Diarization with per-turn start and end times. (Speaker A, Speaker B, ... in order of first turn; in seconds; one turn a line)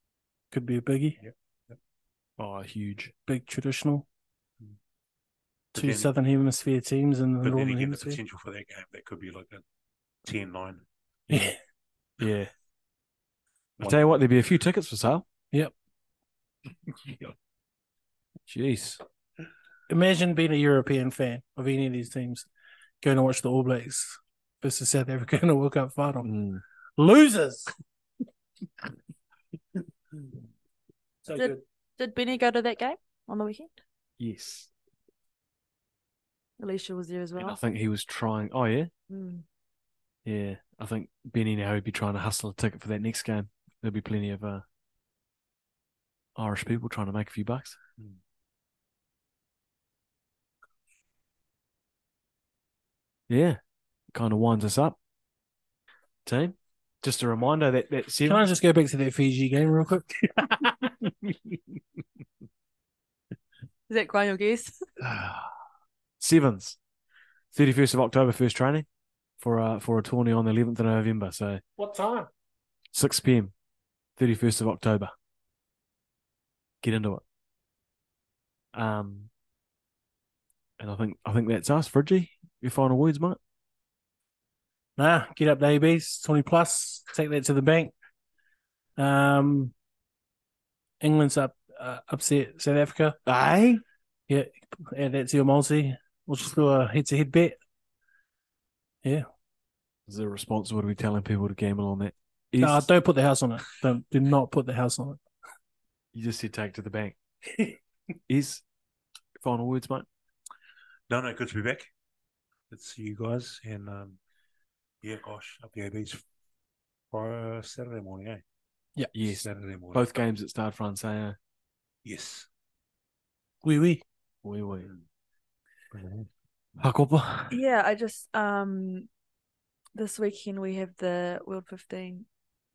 Speaker A: 0.5-1.2
Speaker B: 1.2-1.8
Speaker C: 2.4-3.1
Speaker A: 3.3-4.0
Speaker B: 5.7-6.1
Speaker A: 5.7-8.2
Speaker B: 7.4-9.6
Speaker B: 10.2-10.8
Speaker A: 11.3-11.5
Speaker C: 12.2-12.5
Speaker C: 13.8-15.2
Speaker B: 17.1-17.3
Speaker C: 18.5-19.0
Speaker A: 19.9-22.5
Speaker A: 23.0-26.3
Speaker C: 26.2-26.6
Speaker A: 27.0-27.7
Speaker A: 31.3-31.6
Speaker D: 31.3-33.7
Speaker C: 34.2-34.7
Speaker D: 36.6-37.6
Speaker C: 37.4-38.9
Speaker D: 39.1-39.4
Speaker C: 40.2-44.6
Speaker C: 46.4-47.8
Speaker C: 53.3-53.6
Speaker C: 54.1-55.0
Speaker C: 56.2-58.4
Speaker A: 58.2-61.0
Speaker D: 63.9-64.7
Speaker C: 65.0-65.4
Speaker C: 66.2-66.8
Speaker C: 67.5-68.8
Speaker C: 69.4-71.6
Speaker A: 71.8-72.3
Speaker C: 72.9-73.5
Speaker C: 74.2-75.1
Speaker C: 76.8-77.2
Speaker C: 78.7-79.3
Speaker C: 80.8-83.4
Speaker A: 85.0-87.9
Speaker A: 89.0-89.7
Speaker A: 91.0-93.2
Speaker C: 93.2-93.8
Speaker A: 94.3-97.5
Speaker C: 100.1-102.9
Speaker A: 102.6-105.2
Speaker C: 106.1-107.2
Speaker C: 108.3-108.6
Speaker C: 109.4-110.1
Speaker B: 111.1-111.9
Speaker B: 112.7-114.2
Speaker B: 115.0-116.2
Speaker B: 117.1-118.4
Speaker C: 119.1-121.4
Speaker B: 119.2-120.0
Speaker B: 122.0-122.5
Speaker A: 123.6-124.0
Speaker C: 124.4-124.9
Speaker B: 125.9-126.3
Speaker C: 126.8-127.6
Speaker D: 127.5-129.1
Speaker D: 129.9-132.2